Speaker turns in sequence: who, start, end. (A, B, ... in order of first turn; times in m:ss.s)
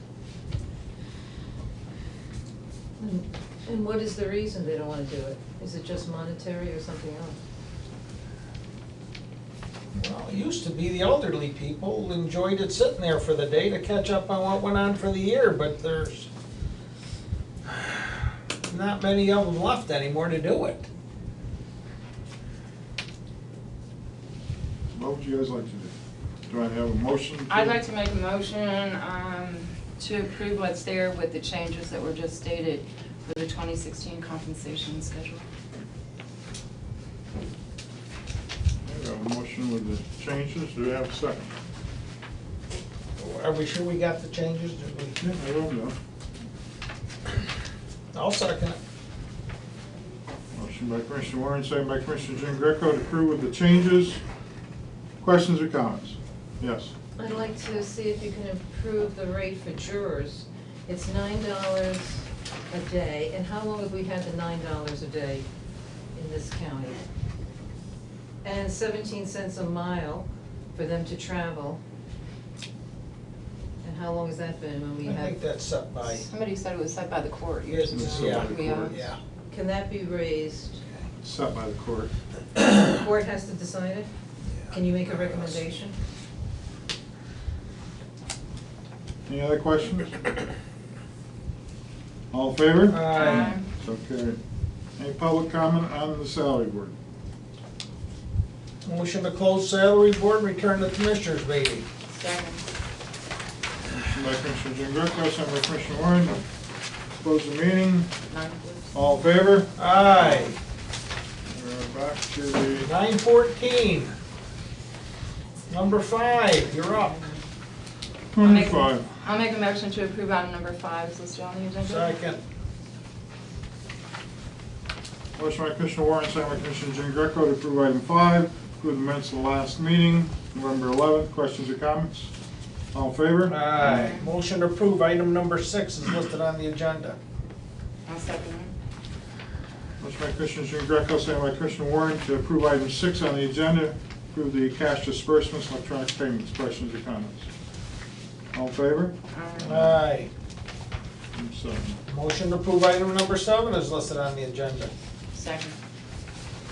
0:03.0-0:07.4 A
0:09.9-0:16.3 B
0:17.7-0:17.9 B
0:18.7-0:20.8 B
0:24.9-0:25.9 C
0:26.5-0:27.8 C
0:27.5-0:35.4 D
0:38.8-0:41.5 C
0:43.2-0:45.2 B
0:45.2-0:46.0 C
0:48.1-0:48.8 B
0:50.5-0:54.2 C
0:55.2-0:56.9 C
0:57.2-1:05.4 A
1:06.1-1:07.0 A
1:08.4-1:11.8 A
1:13.8-1:15.4 A
1:15.0-1:16.2 B
1:16.0-1:19.0 D
1:17.7-1:19.2 B
1:17.9-1:19.0 C
1:19.5-1:20.8 A
1:21.2-1:22.1 C
1:22.6-1:24.1 A
1:24.5-1:25.6 B
1:24.7-1:26.0 A
1:29.3-1:30.1 C
1:32.3-1:34.4 C
1:32.9-1:33.6 B
1:33.1-1:33.7 D
1:35.0-1:36.9 C
1:38.8-1:41.8 B
1:42.1-1:42.6 D
1:43.9-1:46.4 C
1:47.2-1:48.1 C
1:48.3-1:49.0 D
1:48.9-1:50.4 C
1:49.8-1:50.6 B
1:51.5-1:52.9 C
1:52.7-1:54.1 B
1:55.7-1:57.2 B
1:58.3-1:59.1 C
1:58.4-2:02.1 D
2:01.8-2:02.4 B
2:05.4-2:12.3 C
2:12.9-2:14.1 C
2:13.5-2:17.2 B
2:13.9-2:14.2 D
2:18.1-2:18.7 D
2:20.0-2:27.5 C
2:28.5-2:29.9 C
2:29.3-2:29.7 D
2:29.6-2:30.3 B
2:31.3-2:32.0 C
2:32.1-2:34.9 B
2:35.3-2:35.8 D